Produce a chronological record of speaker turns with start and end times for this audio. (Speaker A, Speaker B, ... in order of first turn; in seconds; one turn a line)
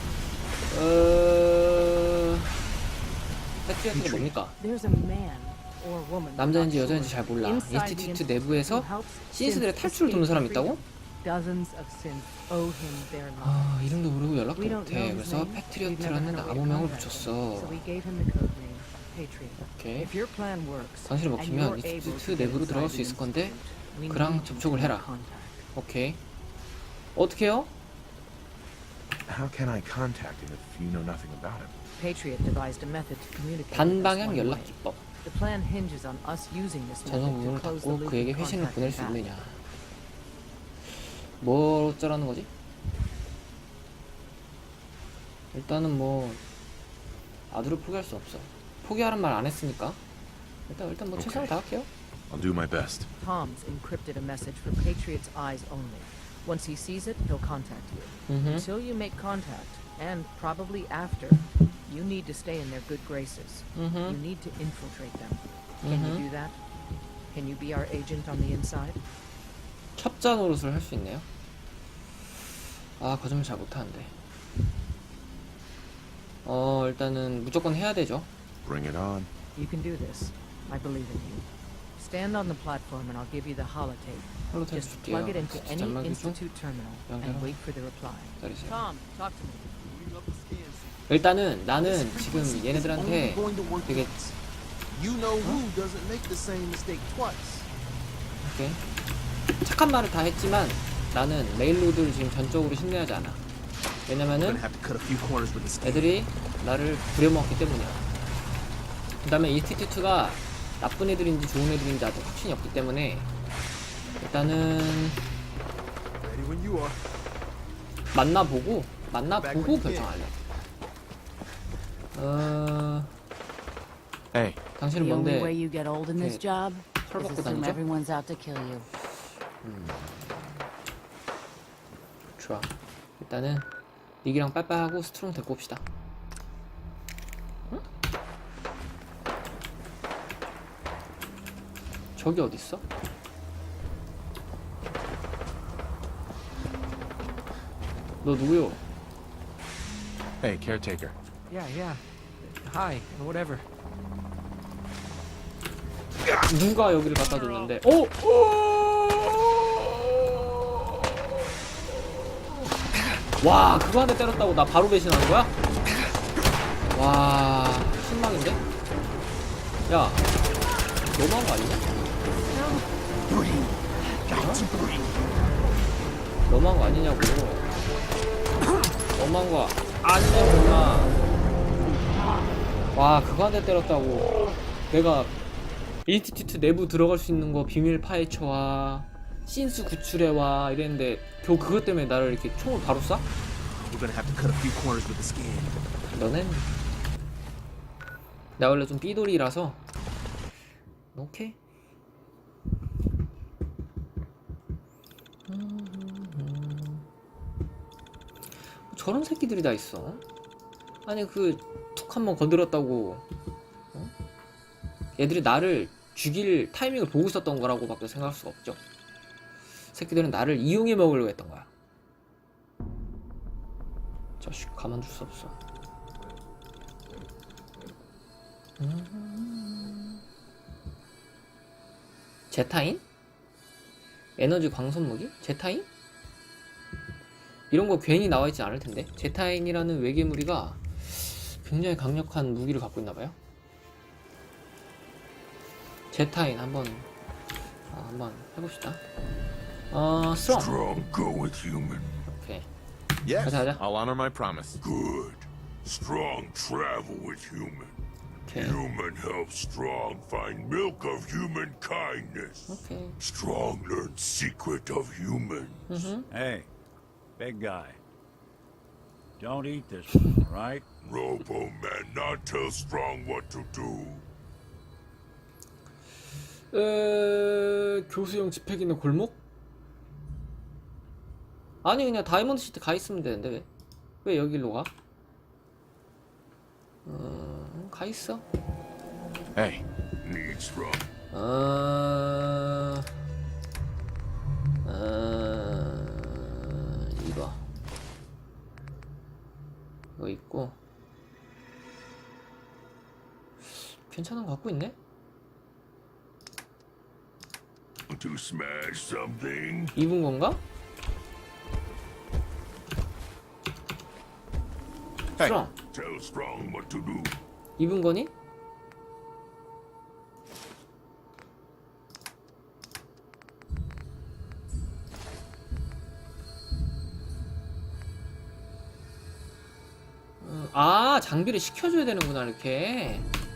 Speaker A: 0.7-2.5
Speaker A: 3.6-4.6
Speaker B: 4.5-25.6
Speaker A: 6.4-10.8
Speaker A: 13.4-17.8
Speaker A: 19.6-20.1
Speaker A: 21.1-25.1
Speaker A: 25.7-26.2
Speaker A: 27.1-27.7
Speaker C: 29.3-31.7
Speaker B: 32.0-39.2
Speaker A: 33.7-35.0
Speaker A: 37.0-39.6
Speaker A: 40.9-42.5
Speaker A: 45.5-46.4
Speaker A: 47.5-50.0
Speaker A: 50.7-51.9
Speaker C: 51.1-51.6
Speaker C: 52.3-53.1
Speaker B: 53.2-66.6
Speaker A: 58.3-58.7
Speaker A: 63.7-64.2
Speaker A: 65.8-66.2
Speaker B: 67.3-69.0
Speaker A: 70.0-71.2
Speaker A: 73.0-74.1
Speaker A: 76.4-78.3
Speaker C: 78.6-79.3
Speaker B: 79.5-89.8
Speaker A: 84.5-86.4
Speaker A: 87.1-87.5
Speaker A: 88.4-88.8
Speaker D: 89.8-90.9
Speaker A: 91.1-94.1
Speaker D: 91.8-94.3
Speaker D: 94.9-97.7
Speaker A: 98.4-98.8
Speaker A: 99.6-103.4
Speaker A: 104.0-104.6
Speaker D: 104.4-106.1
Speaker A: 105.8-108.0
Speaker A: 109.2-113.3
Speaker A: 114.2-115.2
Speaker D: 116.2-117.0
Speaker A: 118.1-120.3
Speaker D: 119.3-120.1
Speaker A: 122.1-123.1
Speaker C: 124.3-124.6
Speaker A: 124.8-125.6
Speaker E: 124.9-128.9
Speaker A: 126.2-127.8
Speaker A: 129.6-130.4
Speaker A: 132.4-133.7
Speaker A: 134.2-135.8
Speaker A: 142.2-142.8
Speaker A: 148.2-148.8
Speaker C: 150.4-151.1
Speaker B: 151.5-153.6
Speaker A: 156.3-160.3
Speaker A: 163.4-165.5
Speaker A: 166.9-168.6
Speaker A: 169.9-170.3
Speaker A: 171.1-171.8
Speaker A: 174.3-174.7
Speaker D: 174.3-175.1
Speaker A: 176.4-177.7
Speaker A: 179.1-181.2
Speaker E: 182.2-182.5
Speaker A: 182.9-184.3
Speaker A: 184.9-185.3
Speaker A: 186.1-193.2
Speaker D: 193.7-195.8
Speaker A: 196.1-196.7
Speaker A: 198.6-199.8
Speaker A: 201.1-201.6
Speaker A: 205.5-207.1
Speaker A: 208.9-210.2
Speaker A: 211.1-213.2
Speaker A: 215.2-218.8
Speaker A: 219.9-221.7
Speaker A: 224.4-225.5
Speaker A: 228.8-230.2
Speaker A: 232.5-233.0
Speaker A: 234.4-235.9
Speaker A: 237.7-243.3
Speaker A: 246.1-247.1
Speaker A: 247.9-249.0
Speaker A: 249.9-250.7
Speaker F: 250.4-252.2
Speaker A: 252.3-252.7
Speaker C: 253.2-254.8
Speaker A: 253.4-253.8
Speaker F: 254.8-258.0
Speaker A: 258.4-258.8
Speaker F: 258.5-266.1
Speaker A: 262.7-263.2
Speaker A: 265.9-266.2
Speaker G: 266.3-266.7
Speaker G: 267.4-268.0
Speaker G: 269.4-270.8
Speaker F: 271.0-274.2
Speaker A: 276.7-279.4
Speaker A: 281.8-283.7
Speaker A: 284.2-284.9
Speaker A: 287.0-288.4
Speaker C: 289.5-289.8
Speaker F: 290.2-291.0
Speaker A: 291.3-293.1
Speaker A: 294.8-297.6
Speaker A: 300.2-300.8
Speaker A: 303.7-304.9
Speaker F: 308.1-309.9
Speaker A: 309.9-310.6
Speaker A: 315.4-315.7
Speaker F: 315.9-317.3
Speaker A: 317.8-318.3
Speaker A: 330.4-333.3